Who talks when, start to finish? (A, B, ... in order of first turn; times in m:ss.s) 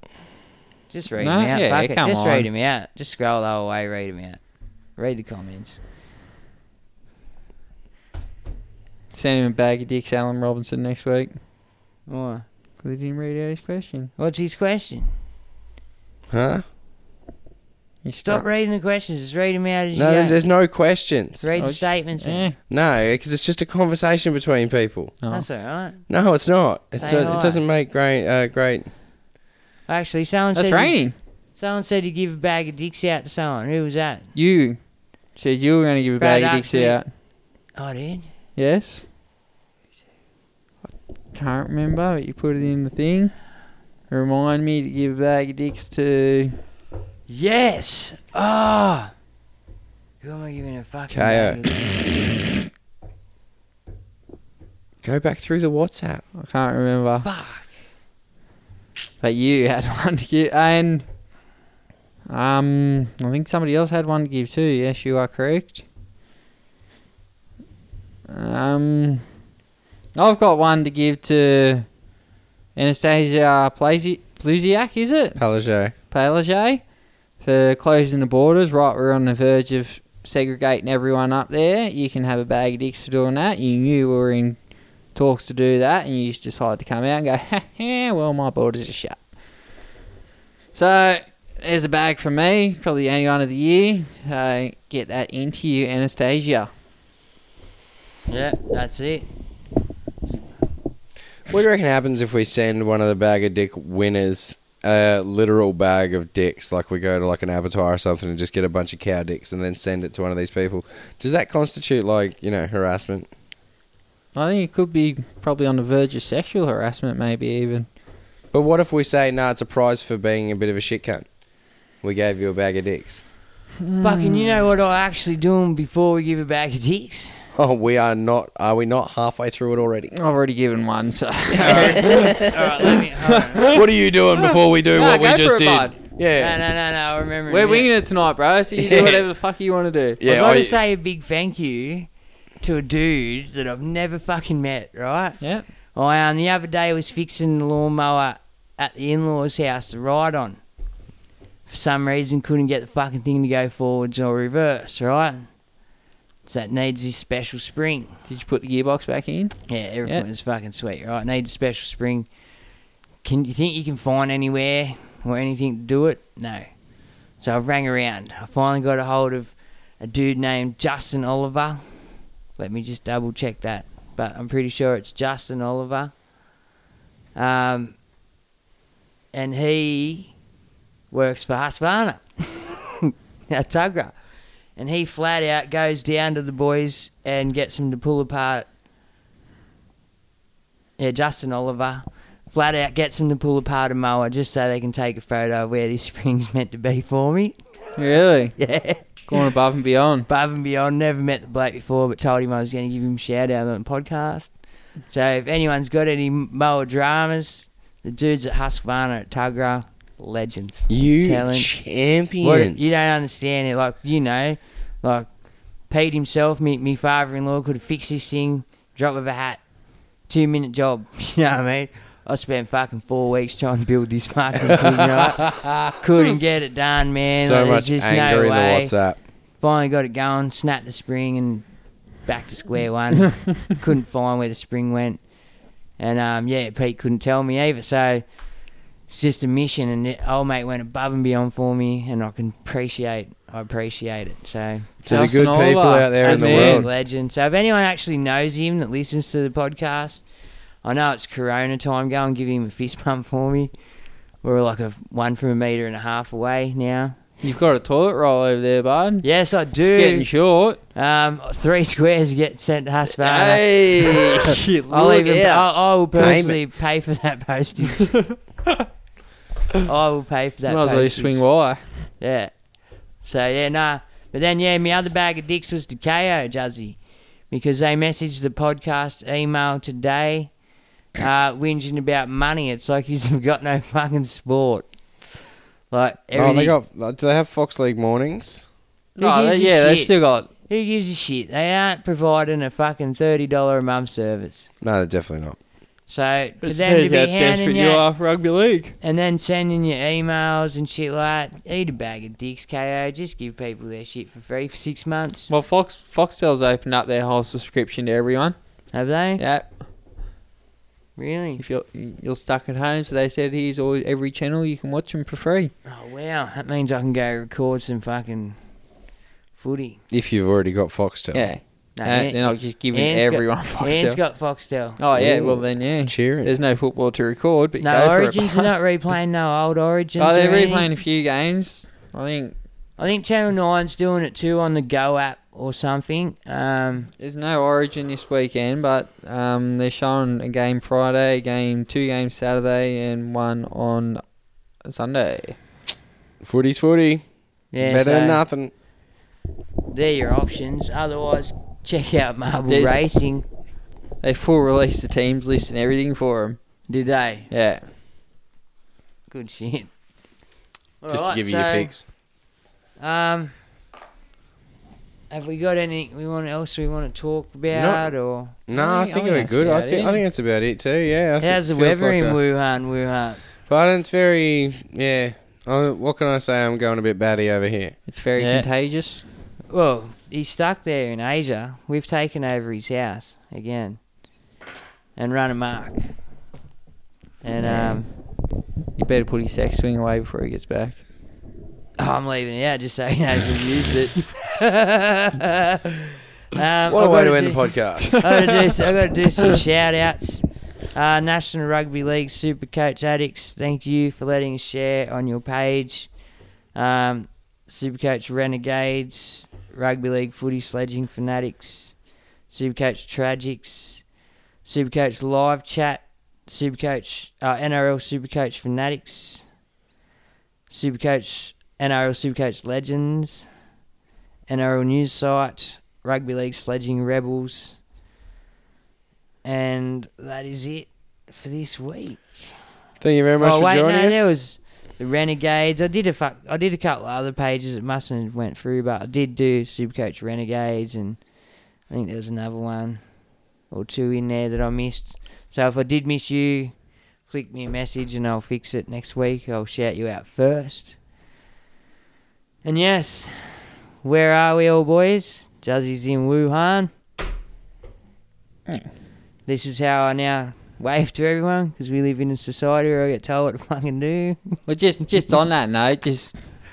0:00.9-0:05.8 A
0:01.2-0:02.5 B
0:09.1-0:11.4 B
0:12.1-0:12.4 A
0:12.8-0:14.1 B
0:14.2-0:15.1 A
0:16.3-0:16.6 C
0:18.0-0:18.4 B
0:18.2-0:20.4 A
0:19.9-0:21.5 C
0:21.4-0:22.4 A
0:21.6-0:22.6 B
0:22.7-0:25.1 C
0:25.2-0:25.4 B
0:25.3-0:26.0 A
0:26.1-0:28.9 C
0:27.0-0:27.6 A
0:29.9-0:34.3 A
0:30.5-0:31.1 B
0:34.3-0:37.1 B
0:36.2-0:37.0 A
0:37.7-0:38.3 A
0:38.6-0:39.0 B
0:41.3-0:43.5 B
0:44.1-0:46.6 B
0:47.3-0:49.1 A
0:50.2-0:52.1 A
0:51.1-0:51.6 C
0:55.0-0:56.2 C
0:56.4-0:57.3 B
0:57.2-0:57.7 A
0:59.2-1:01.1 B
1:02.3-1:05.8 B
1:08.3-1:09.3 B
1:10.1-1:11.9 B
1:12.7-1:15.4 B
1:15.4-1:15.9 C
1:16.1-1:16.8 B
1:17.4-1:24.6 B
1:25.1-1:29.4 B
1:30.7-1:36.7 B
1:38.3-1:39.3 A
1:41.5-1:53.3 C
1:54.3-1:57.9 B
1:58.5-2:01.3 C
2:02.0-2:03.2 C
2:03.8-2:04.6 B
2:04.0-2:07.4 A
2:07.5-2:10.1 C
2:10.1-2:12.4 B
2:11.5-2:12.7 C
2:11.6-2:13.8 A
2:13.6-2:16.6 C
2:14.9-2:16.0 B
2:16.4-2:17.9 A
2:17.5-2:20.2 B
2:18.8-2:19.2 C
2:20.2-2:20.8 C
2:20.2-2:30.6 A
2:25.4-2:25.7 B
2:31.7-2:35.5 A
2:36.4-2:38.1 A
2:38.3-2:40.2 B
2:39.7-2:42.3 A
2:43.2-2:46.7 A
2:47.4-2:56.1 A
2:57.3-2:58.0 A
2:59.3-3:00.3 A
3:01.1-3:04.1 A
3:04.8-3:08.7 A
3:11.0-3:17.6 A
3:18.0-3:20.3 B
3:18.6-3:19.6 A
3:20.3-3:24.6 A
3:25.1-3:31.7 A
3:30.9-3:33.1 C
3:32.4-3:39.6 A
3:40.2-3:49.0 A
3:45.0-3:45.9 C
3:47.2-3:49.2 C
3:49.6-3:51.7 A
3:52.2-3:55.2 A
3:56.0-3:58.3 A
3:59.1-4:05.2 A
4:05.0-4:06.9 C
4:05.1-4:06.9 B
4:06.2-4:10.2 A
4:10.8-4:13.7 A
4:14.4-4:17.2 A
4:17.4-4:19.2 B
4:19.2-4:28.3 A
4:19.8-4:20.8 B
4:23.1-4:25.6 B
4:26.2-4:26.6 C
4:29.8-4:31.5 A
4:30.7-4:32.1 B
4:32.2-4:32.6 A
4:33.2-4:40.5 A
4:41.2-4:44.9 A
4:45.9-4:46.7 A
4:46.3-4:48.7 C
4:49.2-4:50.5 B
4:49.2-4:54.7 A
4:54.8-4:55.6 C
4:56.1-4:58.0 A
4:56.6-4:58.9 B
4:59.0-5:05.5 A
5:05.5-5:08.6 B
5:08.9-5:09.4 A
5:09.4-5:09.7 B
5:11.2-5:11.6 A
5:11.6-5:15.7 B
5:15.8-5:18.6 A
5:19.6-5:20.0 A
5:20.1-5:21.5 C
5:21.3-5:24.2 B
5:22.0-5:25.0 A
5:25.0-5:28.7 B
5:25.1-5:26.5 C
5:27.8-5:30.9 A
5:30.2-5:32.6 B
5:33.0-5:37.1 A
5:37.2-5:45.6 B
5:46.4-5:47.2 C
5:47.7-5:48.4 A
5:47.7-5:48.7 C
5:49.9-5:53.4 A
5:52.7-5:53.0 B
5:54.2-5:56.6 B
5:56.9-5:57.5 A
5:57.5-5:57.8 B
5:59.3-5:59.9 A
6:01.0-6:02.1 A
6:01.1-6:02.0 C
6:03.0-6:03.5 A
6:05.3-6:08.6 A
6:07.7-6:08.1 C
6:08.6-6:12.4 C
6:08.7-6:10.2 B
6:11.4-6:13.4 A
6:13.7-6:18.0 C
6:18.1-6:19.3 B
6:18.4-6:18.7 A
6:19.7-6:24.0 A
6:25.2-6:26.1 A
6:27.4-6:28.1 A
6:27.6-6:28.2 B
6:28.9-6:31.0 B
6:32.0-6:35.9 A
6:36.5-6:46.1 A
6:36.9-6:38.2 C
6:46.7-6:52.0 A
6:52.5-6:54.0 A
6:54.6-6:59.4 A
7:00.7-7:03.5 A
7:04.5-7:07.8 A
7:09.4-7:12.5 A
7:13.0-7:14.3 C
7:13.4-7:21.2 A
7:21.9-7:23.0 A
7:23.7-7:26.7 A
7:27.2-7:31.0 A
7:32.6-7:36.9 A
7:39.4-7:44.6 A
7:44.7-7:46.4 B